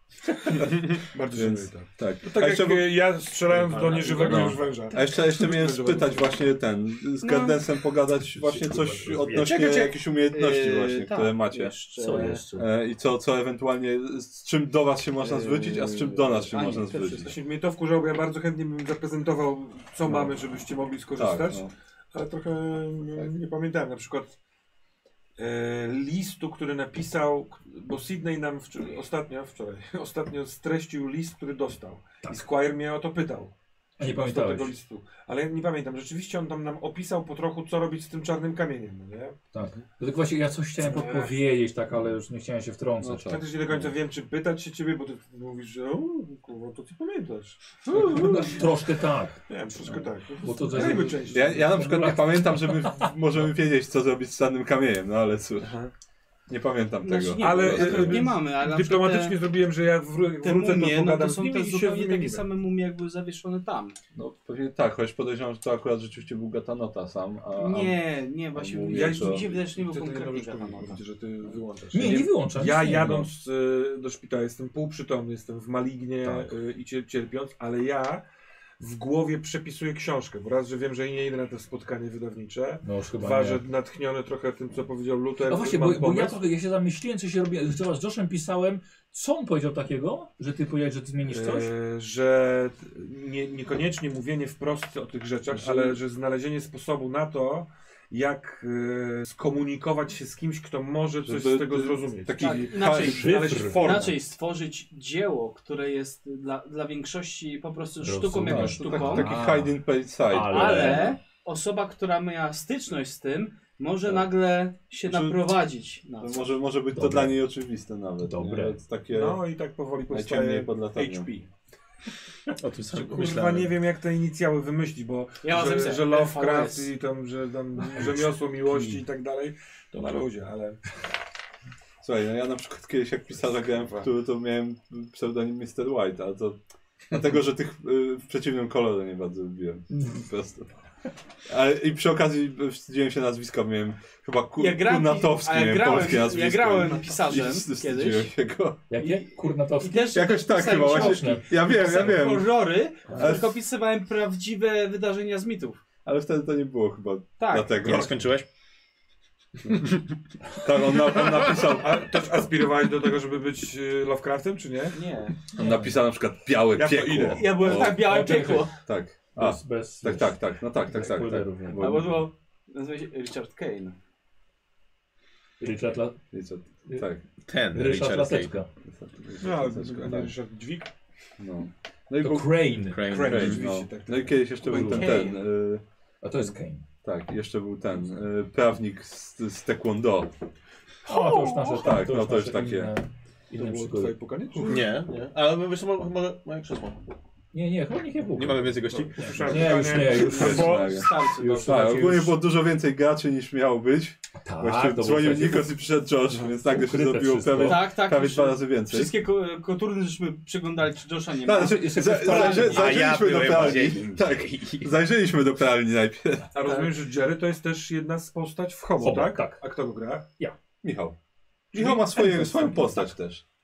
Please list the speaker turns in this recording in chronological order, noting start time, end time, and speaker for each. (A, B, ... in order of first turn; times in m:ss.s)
0:00.5-0:06.4 A
0:01.4-0:02.9 B
0:03.7-0:04.6 C
0:04.2-0:17.4 B
0:07.2-0:07.6 D
0:08.3-0:09.5 C
0:09.4-0:12.4 D
0:12.0-0:12.7 C
0:15.2-0:17.0 D
0:15.3-0:24.4 A
0:21.2-0:21.7 B
0:25.4-0:39.4 A
0:34.0-0:34.7 C
0:39.5-0:43.2 C
0:40.8-0:41.3 A
0:43.0-0:43.9 B
0:43.2-0:48.5 A
0:47.9-0:48.5 B
0:48.0-0:49.4 C
0:49.5-0:51.8 A
0:50.4-0:53.1 C
0:50.7-0:55.7 B
0:55.6-0:55.9 A
0:56.5-0:58.3 B
0:57.0-0:59.4 D
0:57.4-1:02.5 A
1:00.4-1:04.0 D
1:04.2-1:08.0 B
1:07.6-1:11.0 D
1:08.5-1:09.4 B
1:08.9-1:18.2 A
1:11.9-1:13.3 C
1:16.2-1:16.5 C
1:18.8-1:26.5 A
1:22.8-1:23.6 C
1:25.4-1:31.7 C
1:31.3-1:44.2 A
1:35.6-1:36.0 B
1:41.2-1:44.1 B
1:42.4-1:49.3 D
1:42.9-1:44.0 C
1:48.0-1:49.8 C
1:48.5-1:51.1 B
1:50.3-1:51.2 C
1:50.5-1:56.6 D
1:55.0-1:55.6 B
1:56.2-1:59.4 B
1:56.9-1:57.4 C
1:58.2-1:58.8 C
1:59.1-2:01.5 A
2:00.1-2:01.3 B
2:02.6-2:03.7 E
2:02.9-2:10.8 A
2:05.4-2:06.9 D
2:12.0-2:16.6 B
2:13.4-2:14.1 A
2:17.1-2:20.7 B
2:21.5-2:28.8 B
2:24.6-2:28.3 D
2:28.9-2:31.5 C
2:29.0-2:35.8 D
2:30.1-2:32.6 B
2:33.1-2:33.5 B
2:36.0-2:38.2 B
2:37.4-2:37.9 D
2:37.8-2:38.5 E
2:40.6-2:42.2 B
2:41.0-2:45.0 A
2:44.9-2:45.4 D
2:45.6-2:45.9 C
2:45.6-2:48.1 B
2:46.7-2:47.5 A
2:47.3-2:48.8 D
2:48.0-2:48.8 C
2:48.8-2:52.3 B
2:49.4-2:51.8 C
2:51.8-2:54.0 D
2:55.6-2:56.2 C
2:56.3-2:57.2 B
2:57.4-2:58.6 E
2:57.7-2:58.7 C
2:58.9-3:00.3 B
2:59.4-3:00.9 A
3:01.4-3:02.6 B
3:02.2-3:03.3 C
3:02.9-3:03.7 E
3:03.1-3:04.5 A
3:03.2-3:05.8 B
3:04.6-3:05.4 E
3:04.7-3:05.3 C
3:06.2-3:06.8 C
3:07.0-3:10.3 B
3:11.0-3:14.1 C
3:11.7-3:12.9 B
3:13.6-3:14.9 A
3:14.7-3:17.0 E
3:17.5-3:22.4 C
3:18.4-3:19.9 E
3:18.9-3:21.0 A
3:20.1-3:29.1 B
3:20.3-3:21.8 D
3:24.4-3:25.7 C
3:26.7-3:27.9 C
3:27.6-3:32.8 D
3:31.4-3:36.4 B
3:31.6-3:33.0 C
3:32.5-3:34.9 E
3:36.5-3:40.3 A
3:36.6-3:36.9 D
3:39.0-3:39.6 C
3:40.8-3:41.2 B
3:41.7-3:43.4 B
3:41.8-3:43.0 A